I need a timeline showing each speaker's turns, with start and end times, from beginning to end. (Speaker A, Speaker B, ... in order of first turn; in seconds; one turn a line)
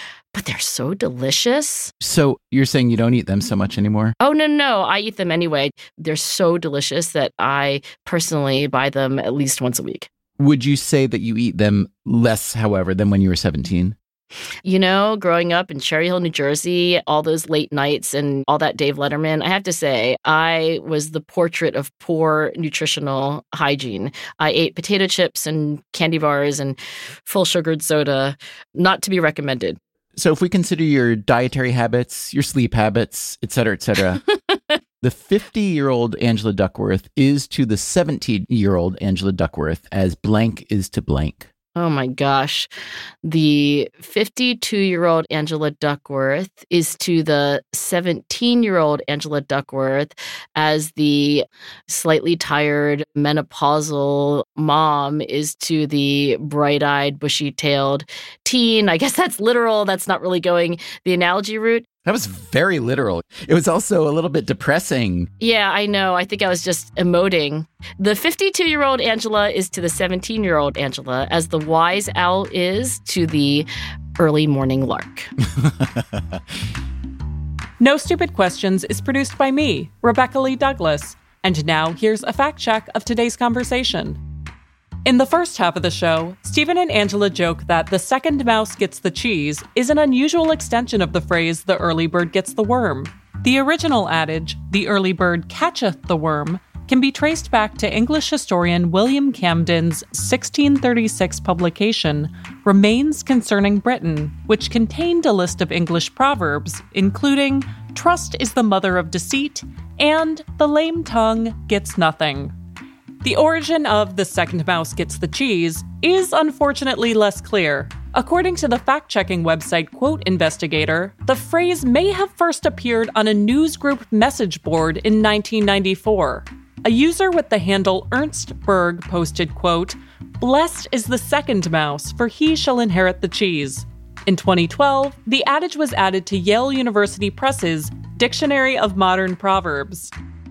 Speaker A: 0.3-1.9
Speaker B: 2.0-4.1
Speaker A: 4.2-10.1
Speaker B: 10.4-13.9
Speaker A: 14.6-29.8
Speaker B: 30.1-34.2
Speaker B: 35.0-41.5
Speaker A: 41.8-42.7
Speaker A: 43.2-61.9
Speaker B: 62.0-65.3
Speaker A: 65.4-75.3
Speaker B: 75.5-76.4
Speaker C: 77.8-84.2
Speaker C: 85.0-112.5
Speaker C: 113.2-140.1